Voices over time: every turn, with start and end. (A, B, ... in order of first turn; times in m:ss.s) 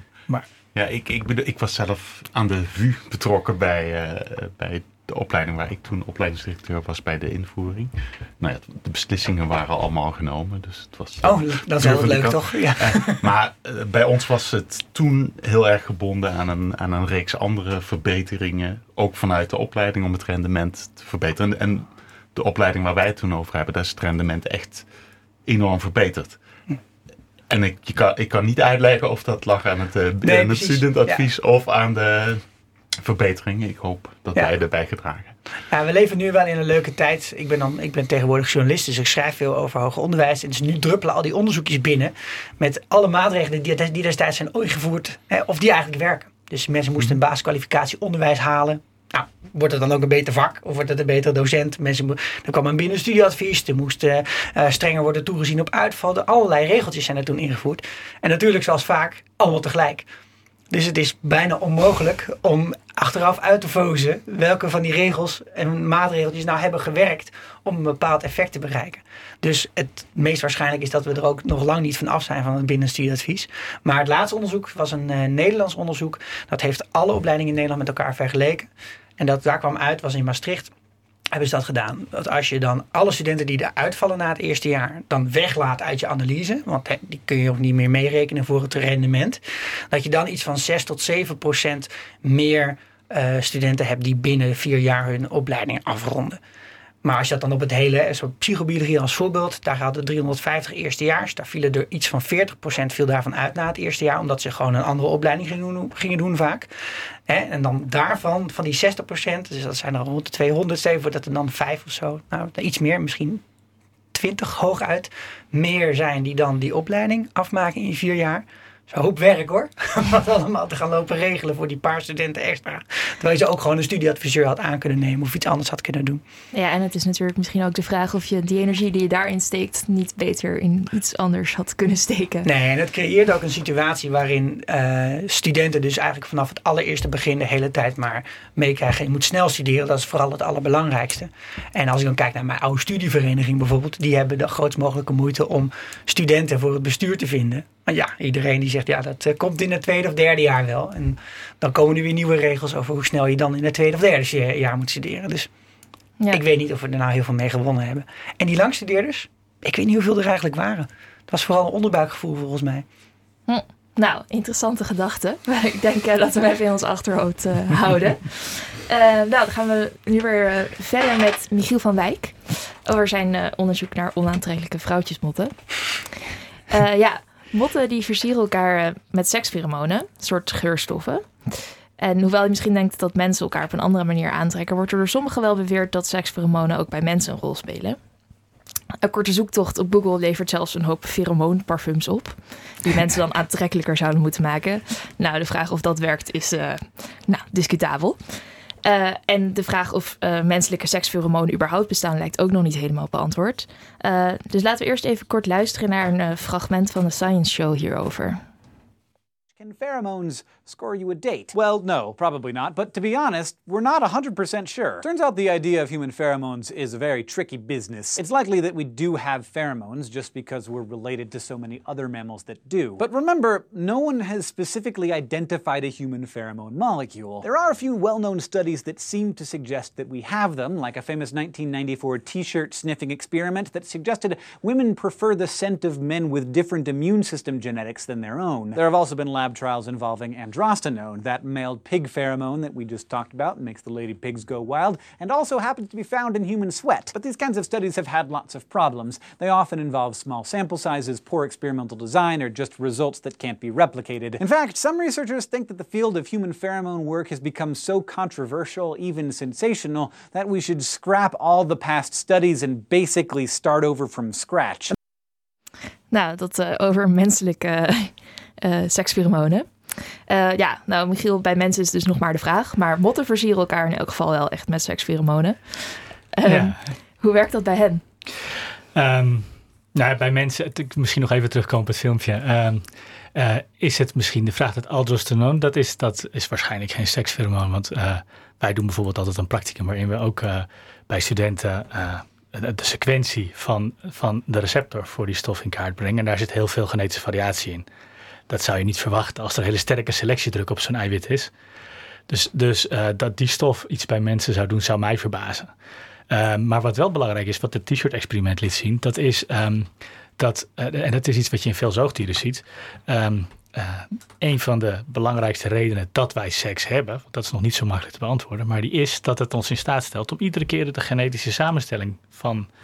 0:00.7-0:24.8 A
0:11.2-0:13.2 B
0:25.4-0:26.4 A
0:27.5-0:32.4 A
0:30.2-0:31.2 B
0:33.0-0:35.3 A
0:35.7-1:00.1 B
1:00.7-1:20.7 B
1:21.3-1:36.4 B
1:37.0-1:46.7 B
1:47.3-1:53.4 B
1:54.1-2:06.2 B
2:06.5-2:12.5 C
2:12.4-2:35.5 B
2:36.3-2:42.8 B
2:43.5-2:55.6 C
2:56.7-3:08.0 C
3:09.0-3:18.2 C
3:18.8-3:28.4 C
3:29.6-4:24.9 D
4:26.1-4:29.7 C
4:30.3-4:38.0 C
4:36.4-4:36.8 E
4:38.9-4:57.8 E
4:58.5-5:01.5 E
5:02.3-5:05.7 E
5:06.3-5:22.7 E